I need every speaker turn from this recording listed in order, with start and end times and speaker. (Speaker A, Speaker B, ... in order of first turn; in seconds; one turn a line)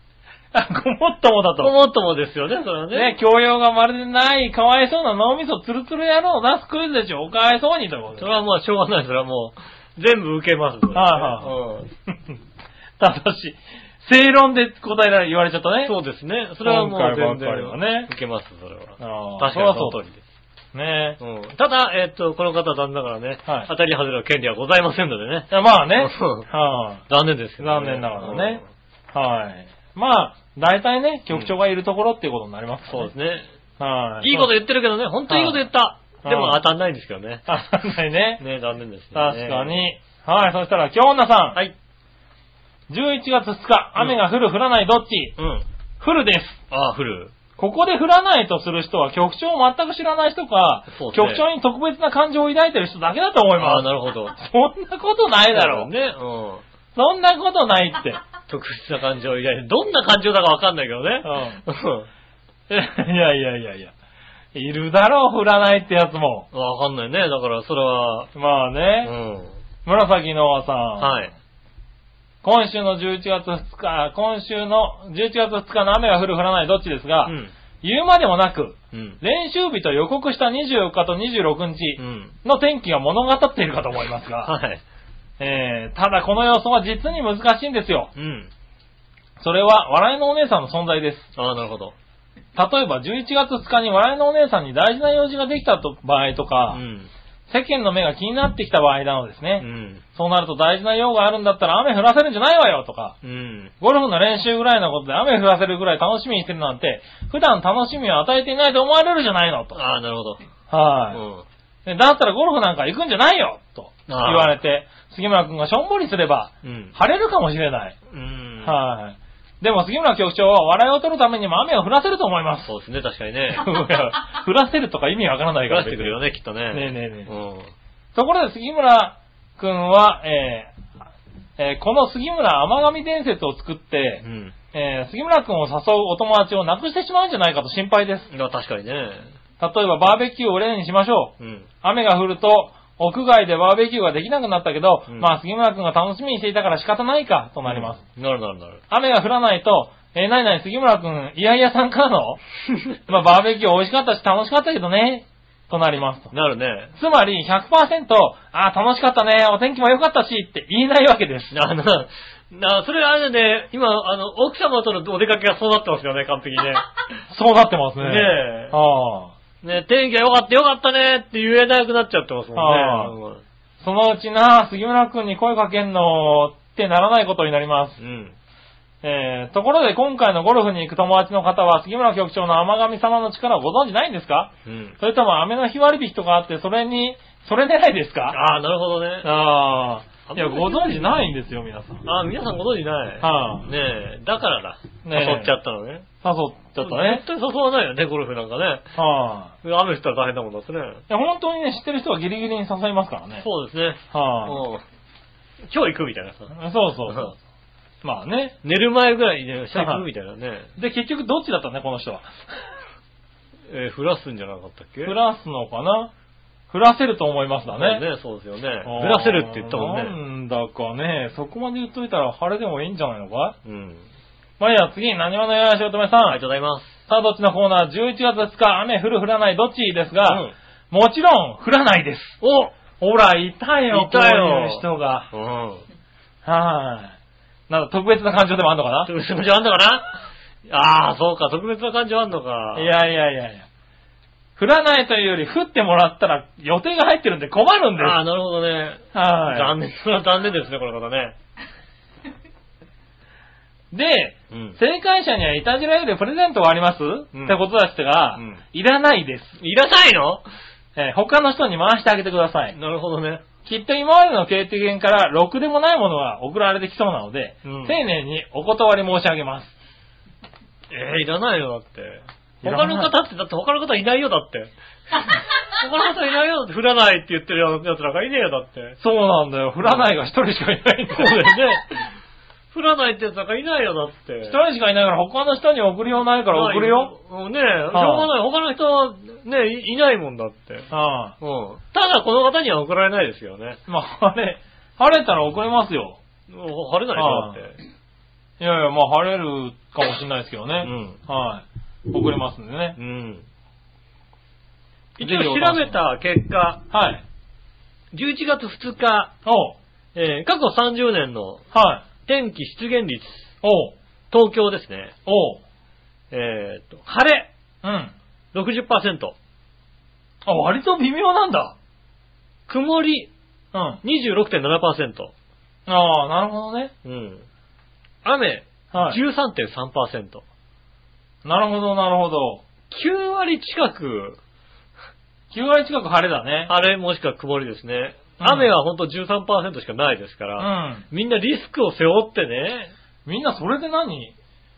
Speaker A: 0.5-1.7
Speaker B: 1.6-3.1
Speaker A: 2.9-8.3
Speaker B: 8.2-11.9
Speaker A: 10.9-11.6
Speaker A: 13.0-15.9
Speaker B: 15.8-20.2
Speaker A: 16.6-18.1
Speaker A: 19.0-20.0
Speaker A: 20.7-21.2
Speaker B: 21.2-26.5
Speaker A: 25.5-27.0
Speaker B: 27.1-28.6
Speaker A: 27.6-28.6
Speaker A: 29.1-33.1
Speaker B: 32.9-33.5
Speaker A: 33.8-34.5
Speaker B: 34.2-37.5
Speaker A: 35.3-35.6
Speaker A: 36.2-36.6
Speaker A: 37.5-38.4
Speaker B: 38.4-39.8
Speaker A: 39.1-41.6
Speaker A: 42.9-45.4
Speaker B: 45.4-45.6
Speaker A: 46.0-46.6
Speaker B: 46.7-47.3
Speaker A: 47.6-55.9
Speaker B: 50.9-51.4
Speaker B: 53.6-54.3
Speaker B: 55.5-56.6
Speaker A: 56.9-58.2
Speaker B: 58.5-62.1
Speaker A: 61.2-61.6
Speaker A: 62.7-63.9
Speaker A: 64.5-66.5
Speaker B: 66.5-68.3
Speaker A: 68.3-69.1
Speaker B: 69.0-69.6
Speaker A: 69.8-71.2
Speaker B: 71.0-71.3
Speaker A: 72.4-84.5
Speaker B: 77.2-77.5
Speaker B: 78.9-79.2
Speaker B: 82.0-82.3
Speaker B: 84.4-84.8
Speaker A: 85.4-88.1
Speaker B: 88.1-88.5
Speaker A: 89.4-91.3
Speaker B: 91.3-91.9
Speaker A: 92.5-96.8
Speaker B: 96.7-97.1
Speaker A: 97.5-103.2
Speaker B: 99.6-100.0
Speaker B: 103.2-103.7
Speaker A: 103.8-109.8
Speaker B: 109.7-110.4
Speaker A: 110.7-111.2
Speaker B: 111.1-111.5
Speaker A: 111.8-117.9
Speaker B: 114.1-114.5
Speaker B: 116.6-116.9
Speaker B: 118.1-118.8
Speaker A: 118.6-122.7
Speaker B: 122.6-123.7
Speaker A: 123.5-126.2
Speaker B: 125.7-127.7
Speaker A: 126.7-127.3
Speaker A: 128.1-130.7
Speaker A: 131.6-138.3
Speaker B: 134.2-134.5
Speaker B: 138.3-139.3
Speaker A: 139.6-148.0
Speaker B: 141.4-141.7
Speaker B: 147.7-148.8
Speaker A: 148.9-152.4
Speaker B: 152.7-153.0
Speaker A: 153.1-156.3
Speaker B: 156.3-156.9
Speaker A: 156.9-161.5
Speaker B: 161.5-166.8
Speaker A: 167.3-169.3
Speaker B: 168.0-168.8
Speaker B: 169.6-173.4
Speaker A: 172.5-173.1
Speaker A: 173.8-178.0
Speaker B: 178.0-178.3
Speaker A: 179.0-188.4
Speaker B: 184.7-185.0
Speaker B: 188.3-189.3
Speaker A: 189.2-192.1
Speaker B: 190.3-191.1
Speaker B: 192.0-196.1
Speaker A: 193.2-193.7
Speaker A: 195.0-195.6
Speaker A: 196.2-197.2
Speaker B: 196.8-198.9
Speaker A: 198.9-199.5
Speaker B: 199.6-201.0
Speaker A: 201.1-203.4
Speaker B: 203.4-204.8
Speaker A: 204.1-204.6
Speaker B: 205.7-206.6
Speaker A: 206.5-207.3
Speaker B: 207.1-207.3
Speaker A: 208.0-208.6
Speaker B: 208.6-210.7
Speaker A: 209.7-210.0
Speaker A: 210.8-212.7
Speaker B: 213.7-215.2
Speaker A: 215.0-216.1
Speaker A: 216.7-218.1
Speaker B: 217.7-220.1
Speaker A: 218.8-223.6
Speaker B: 223.6-224.0
Speaker A: 224.6-226.4
Speaker B: 226.3-227.0
Speaker A: 227.1-232.4
Speaker B: 230.2-230.5
Speaker B: 232.4-232.7
Speaker A: 233.0-235.3
Speaker B: 233.9-235.8
Speaker A: 236.4-237.1
Speaker A: 237.7-239.1
Speaker B: 239.1-242.9
Speaker A: 242.7-243.7
Speaker A: 244.6-248.2
Speaker B: 248.0-251.3
Speaker A: 249.1-249.7
Speaker A: 253.9-259.6
Speaker B: 254.5-254.8
Speaker B: 257.3-257.6
Speaker B: 258.4-258.6
Speaker B: 259.6-260.4
Speaker A: 260.9-262.8
Speaker B: 262.7-263.4
Speaker A: 263.6-269.7
Speaker B: 267.6-268.0
Speaker B: 270.9-279.0
Speaker A: 272.6-273.1
Speaker A: 279.0-281.4
Speaker B: 281.1-282.1
Speaker B: 282.7-284.6
Speaker A: 284.4-287.1
Speaker B: 286.5-293.8
Speaker A: 287.9-288.3
Speaker A: 290.9-291.3
Speaker A: 293.9-296.2
Speaker B: 296.5-297.8
Speaker A: 297.1-297.6
Speaker A: 298.6-303.0
Speaker B: 300.8-301.2
Speaker B: 303.0-303.5
Speaker B: 305.2-306.8
Speaker A: 305.2-306.0
Speaker A: 306.9-307.2
Speaker B: 308.1-309.3
Speaker A: 309.4-309.8
Speaker B: 310.1-311.6
Speaker A: 311.7-312.0
Speaker B: 312.2-313.5
Speaker A: 313.6-313.9
Speaker B: 314.3-315.1
Speaker A: 315.2-315.6
Speaker B: 316.3-317.5
Speaker A: 317.8-318.1
Speaker B: 318.5-319.4
Speaker A: 320.4-321.7
Speaker B: 322.7-323.3
Speaker A: 323.7-324.0
Speaker B: 324.0-325.3
Speaker A: 325.9-326.9
Speaker B: 327.0-327.4
Speaker B: 328.2-330.4
Speaker A: 328.9-329.2
Speaker A: 331.4-332.6
Speaker B: 332.9-334.4
Speaker A: 335.5-336.7
Speaker B: 336.7-342.9
Speaker A: 338.4-338.7
Speaker A: 340.6-341.1
Speaker A: 343.2-344.3